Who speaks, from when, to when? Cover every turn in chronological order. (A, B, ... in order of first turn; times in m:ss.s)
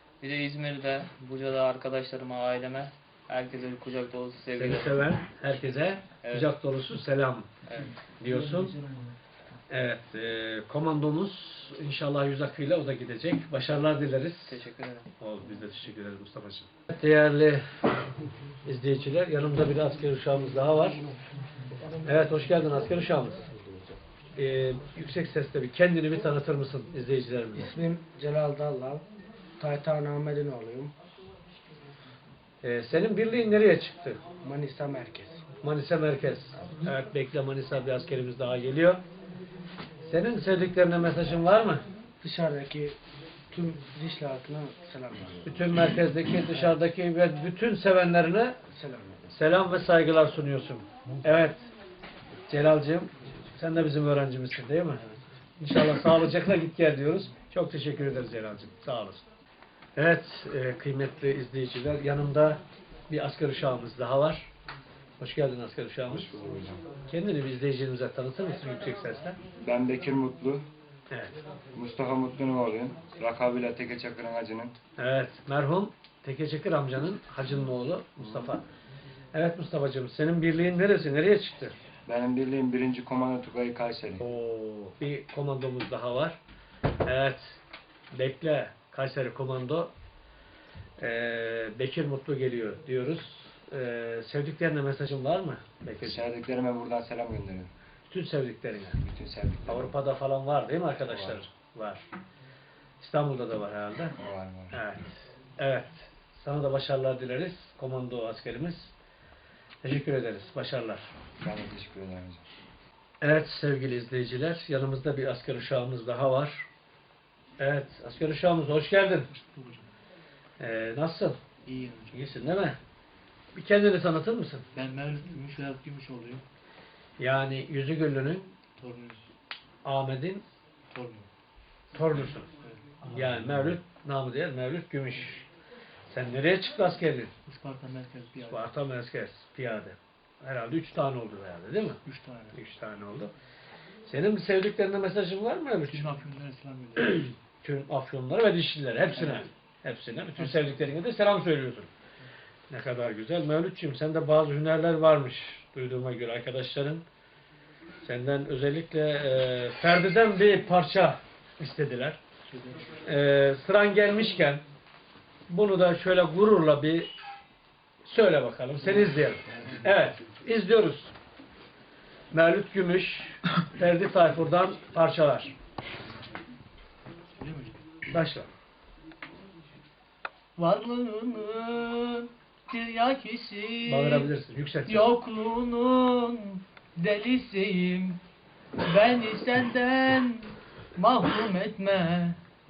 0:00.2-0:05.0 A
0:04.6-0:07.5 B
0:06.2-0:06.5 A
0:07.7-0:07.9 A
0:08.2-0:08.8 B
0:09.7-0:14.6 B
0:14.4-0:15.1 A
0:15.2-0:17.6 B
0:18.6-0:21.0 B
0:22.0-0:23.4 B
0:24.4-0:27.7 B
0:27.6-0:29.0 C
0:29.6-0:30.9 C
0:32.6-0:34.2 B
0:34.4-0:35.4 C
0:35.6-0:39.0 B
0:40.0-0:41.8 B
0:42.2-0:43.0 C
0:43.5-0:45.4 C
0:45.4-0:48.6 B
0:48.7-0:49.1 C
0:49.3-0:51.7 B
0:52.5-0:59.2 B
1:00.0-1:04.5 B
1:05.2-1:06.3 B
1:06.1-1:06.8 D
1:07.0-1:09.4 B
1:09.6-1:10.6 D
1:11.1-1:11.3 B
1:11.8-1:14.7 D
1:15.0-1:18.6 B
1:19.3-1:21.7 B
1:22.1-1:24.2 D
1:24.2-1:26.4 B
1:27.0-1:27.6 B
1:28.1-1:29.9 B
1:31.0-1:36.3 B
1:36.0-1:37.7 D
1:38.1-1:39.0 B
1:39.0-1:39.9 D
1:39.7-1:42.0 B
1:41.0-1:41.4 D
1:43.0-1:44.2 B
1:44.2-1:44.7 D
1:44.7-1:48.9 B
1:49.8-1:51.0 B
1:51.4-1:52.4 D
1:53.2-1:56.6 B
1:57.6-1:59.3 B
1:59.3-1:59.8 E
2:00.6-2:01.4 B
2:01.7-2:02.2 E
2:02.1-2:02.8 B
2:03.5-2:04.6 B
2:04.7-2:06.4 E
2:07.2-2:08.5 B
2:08.8-2:09.3 E
2:09.8-2:10.4 B
2:10.9-2:11.3 E
2:11.9-2:12.5 B
2:13.0-2:15.5 B
2:16.1-2:17.3 B
2:17.5-2:18.7 E
2:18.4-2:22.0 B
2:22.0-2:22.6 E
2:22.5-2:23.3 B
2:24.1-2:26.2 B
2:25.8-2:27.2 E
2:27.0-2:31.9 B
2:30.4-2:30.9 E
2:32.7-2:37.0 B
2:38.0-2:42.2 B
2:42.5-2:43.0 E
2:43.0-2:44.6 B
2:45.5-2:47.1 B
2:48.0-2:51.1 B
2:52.3-2:55.5 B
2:57.4-2:57.9 E
2:58.1-2:58.5 B
3:00.6-3:04.3 E
3:03.8-3:05.1 B
3:04.8-3:08.2 E
3:08.8-3:12.4 E